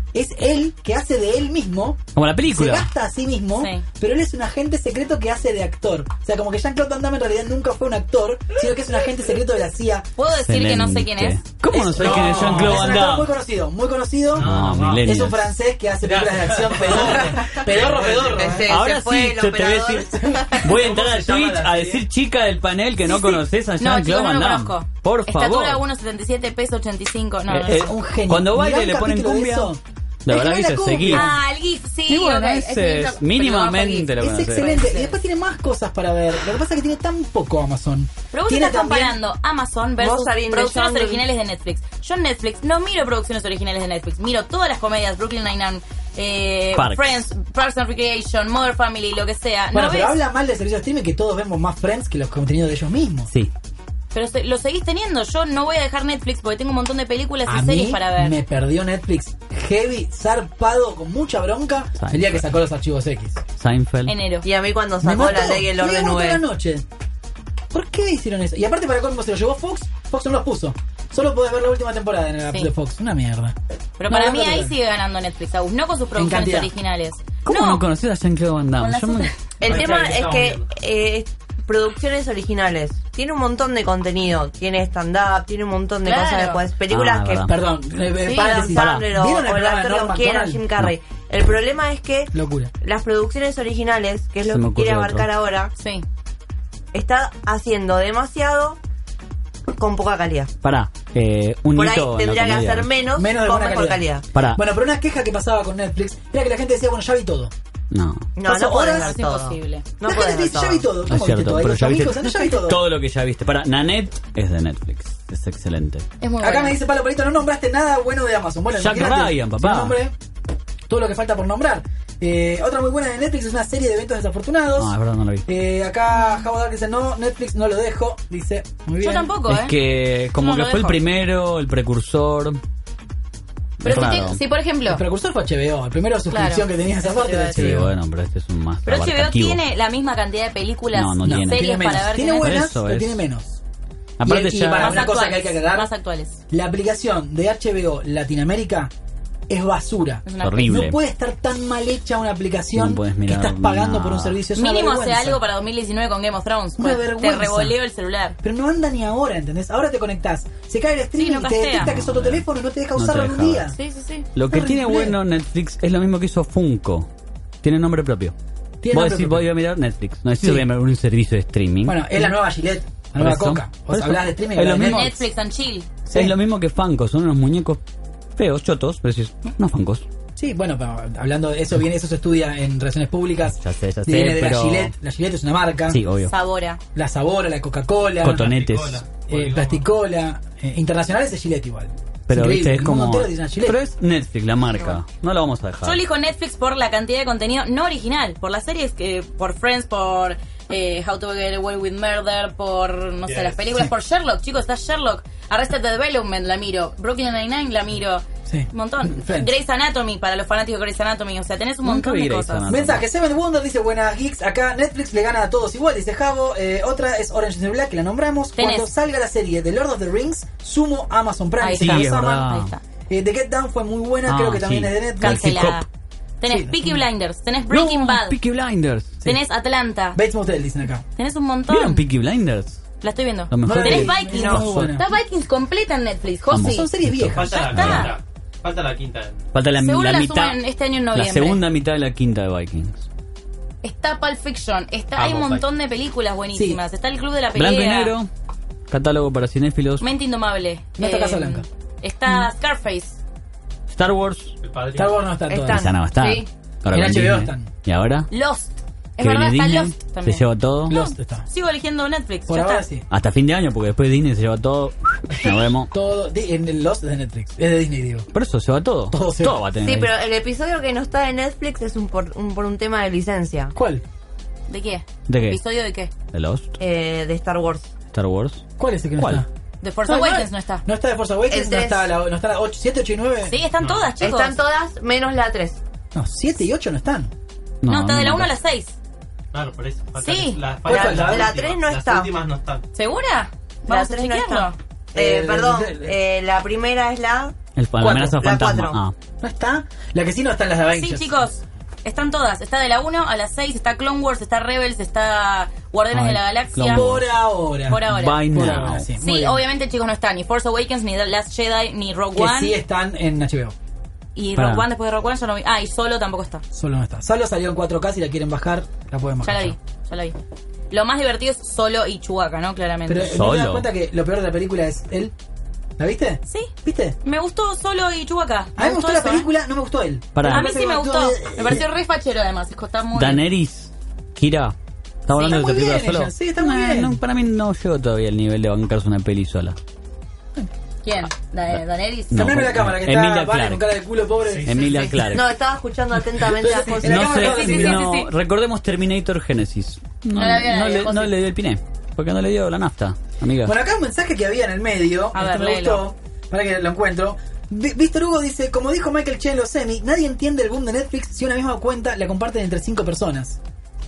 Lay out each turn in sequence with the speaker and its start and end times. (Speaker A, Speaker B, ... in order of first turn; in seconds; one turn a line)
Speaker A: 0.1-10.1
Speaker B: 2.1-2.9
Speaker C: 3.6-3.8
Speaker C: 10.2-11.4
Speaker B: 10.3-13.3
Speaker A: 11.7-18.7
Speaker D: 12.0-13.0
Speaker D: 14.3-15.1
Speaker B: 14.4-15.5
Speaker D: 16.0-18.6
Speaker E: 17.1-20.7
Speaker B: 18.7-25.8
Speaker D: 20.6-22.0
Speaker C: 23.1-27.9
Speaker B: 27.5-31.3
Speaker A: 27.6-31.4
Speaker C: 31.1-32.4
Speaker B: 32.1-34.7
Speaker E: 32.2-34.0
Speaker A: 34.2-39.2
Speaker C: 34.6-35.1
Speaker C: 38.3-50.2
Speaker E: 40.0-41.2
Speaker B: 46.7-47.3
Speaker A: 49.7-53.3
Speaker C: 54.1-58.4
Speaker A: 57.5-63.4
Speaker B: 62.0-62.4
Speaker B: 63.6-64.2
Speaker C: 64.1-64.5
Speaker E: 64.4-66.4
Speaker A: 65.0-66.8
Speaker A: 67.7-73.5
Speaker C: 74.0-77.8
Speaker A: 74.1-74.8
Speaker A: 76.2-76.7
Speaker B: 77.5-79.3
Speaker C: 78.8-79.4
Speaker E: 79.6-87.5
Speaker D: 79.6-80.7
Speaker C: 86.0-86.6
Speaker B: 86.9-87.6
Speaker A: 87.5-90.6
Speaker C: 88.3-88.7
Speaker E: 88.3-95.7
Speaker B: 88.6-89.1
Speaker A: 92.3-92.7
Speaker B: 94.5-95.3
Speaker C: 95.8-96.0
Speaker E: 96.9-98.8
Speaker E: 99.8-100.5
Speaker B: 100.6-102.9
Speaker E: 101.7-104.2
Speaker A: 103.2-107.5
Speaker B: 104.3-104.6
Speaker B: 107.9-108.3
Speaker E: 108.4-110.9
Speaker A: 108.4-109.1
Speaker C: 109.0-109.9
Speaker A: 110.0-112.8
Speaker B: 111.1-116.1
Speaker C: 116.2-116.8
Speaker A: 116.4-120.1
Speaker B: 118.8-120.0
Speaker A: 120.9-125.0
Speaker B: 124.8-125.5
Speaker A: 125.5-129.3
Speaker C: 129.0-129.8
Speaker B: 129.5-132.6
Speaker C: 130.4-131.0
Speaker B: 133.8-134.4
Speaker C: 133.8-135.0
Speaker A: 134.9-137.9
Speaker C: 136.3-136.7
Speaker E: 137.0-137.6
Speaker B: 137.6-139.6
Speaker C: 138.9-142.6
Speaker B: 140.9-141.8
Speaker A: 141.2-143.6
Speaker B: 142.4-143.2
Speaker B: 144.2-145.1
Speaker A: 144.2-145.9
Speaker C: 144.8-146.4
Speaker A: 146.5-148.9
Speaker A: 149.5-155.4
Speaker C: 150.3-150.7
Speaker B: 150.4-151.0
Speaker B: 152.8-154.4
Speaker C: 154.6-158.4
Speaker A: 156.8-157.8
Speaker A: 158.4-163.8
Speaker C: 161.2-161.9
Speaker B: 161.8-162.4
Speaker B: 162.9-163.7
Speaker C: 163.7-164.3
Speaker B: 164.3-167.1
Speaker A: 164.5-165.2
Speaker B: 167.6-168.3
Speaker A: 168.8-169.5
Speaker B: 168.9-172.3
Speaker A: 170.4-170.7
Speaker A: 171.9-175.2
Speaker B: 173.2-175.2
Speaker C: 174.8-175.9
Speaker A: 176.1-176.4
Speaker B: 176.1-177.8
Speaker B: 178.4-180.1
Speaker A: 180.4-186.0
Speaker B: 183.6-184.9
Speaker B: 185.9-186.3
Speaker C: 186.2-186.8
Speaker A: 186.9-188.5
Speaker B: 188.2-189.1
Speaker D: 188.4-189.8
Speaker A: 189.3-193.8
Speaker B: 192.3-196.0
Speaker C: 194.7-195.0
Speaker C: 195.8-212.6
Speaker D: 203.3-203.6
Speaker A: 208.5-209.5
Speaker B: 211.8-213.1
Speaker A: 212.7-222.6
Speaker C: 218.6-218.9
Speaker C: 221.6-222.8
Speaker B: 221.8-222.7
Speaker A: 223.1-225.5
Speaker B: 224.3-225.8
Speaker C: 225.2-225.9
Speaker C: 226.4-228.4
Speaker A: 226.5-227.0
Speaker B: 227.7-229.2
Speaker C: 229.2-230.2
Speaker A: 230.2-231.1
Speaker C: 231.2-232.0
Speaker B: 231.7-232.8
Speaker C: 233.0-236.9
Speaker B: 233.5-235.0
Speaker A: 233.6-235.1
Speaker B: 236.5-238.1
Speaker A: 236.6-237.7
Speaker D: 237.3-239.5
Speaker C: 237.5-238.2
Speaker B: 239.5-240.6
Speaker C: 239.8-241.6
Speaker B: 241.1-243.1
Speaker C: 243.8-248.1
Speaker D: 245.2-245.7
Speaker A: 246.5-246.8
Speaker B: 247.6-248.3
Speaker B: 248.9-250.1
Speaker C: 250.0-253.2
Speaker A: 251.0-251.7
Speaker B: 253.9-254.6
Speaker D: 254.6-255.3
Speaker A: 254.9-255.9
Speaker E: 255.5-256.4
Speaker B: 255.7-258.3
Speaker A: 256.9-257.7
Speaker C: 258.3-262.9
Speaker B: 259.2-261.0
Speaker A: 260.9-261.5
Speaker A: 262.5-263.1
Speaker B: 263.1-265.9
Speaker A: 265.9-268.3
Speaker B: 268.3-270.1
Speaker A: 269.1-269.6
Speaker E: 269.8-273.8
Speaker A: 273.8-274.0
Speaker C: 274.7-276.1
Speaker B: 275.3-275.6
Speaker B: 276.3-276.7
Speaker E: 276.8-277.9
Speaker B: 278.1-278.6
Speaker A: 278.8-279.5
Speaker B: 279.2-279.4
Speaker C: 279.8-280.8
Speaker A: 280.1-283.6
Speaker E: 281.5-282.1
Speaker C: 283.5-284.6
Speaker D: 283.8-284.2
Speaker E: 284.2-285.8
Speaker A: 286.1-287.3
Speaker B: 287.8-288.5
Speaker C: 287.9-289.0
Speaker D: 289.5-292.9
Speaker C: 290.2-290.6
Speaker A: 290.9-291.5
Speaker E: 290.9-292.4
Speaker C: 292.9-294.8
Speaker E: 293.9-299.0
Speaker A: 295.1-296.1
Speaker B: 297.8-299.1
Speaker A: 298.0-298.3
Speaker A: 299.4-301.5
Speaker C: 300.9-307.2
Speaker B: 306.1-307.2
Speaker A: 306.9-309.6
Speaker C: 307.9-308.6
Speaker B: 308.1-309.1
Speaker C: 309.2-312.8
Speaker A: 312.3-313.8
Speaker C: 314.4-316.6
Speaker B: 314.6-314.9
Speaker A: 316.7-319.8
Speaker C: 319.4-320.4
Speaker C: 320.9-323.4
Speaker A: 323.1-325.3
Speaker B: 323.3-323.9
Speaker A: 326.0-327.2
Speaker C: 327.2-329.5
Speaker A: 328.8-331.9
Speaker B: 330.4-330.7
Speaker C: 330.5-333.4
Speaker B: 333.1-334.8
Speaker B: 335.3-339.8
Speaker C: 335.3-335.6
Speaker A: 335.4-337.2
Speaker C: 341.0-342.3
Speaker B: 342.3-343.9
Speaker A: 342.3-345.0
Speaker D: 344.5-345.1
Speaker B: 344.6-345.5
Speaker E: 345.3-347.6
Speaker A: 346.5-348.0
Speaker B: 347.0-353.8
Speaker C: 347.4-348.3
Speaker C: 350.3-351.3
Speaker A: 353.6-363.6
Speaker C: 355.3-356.0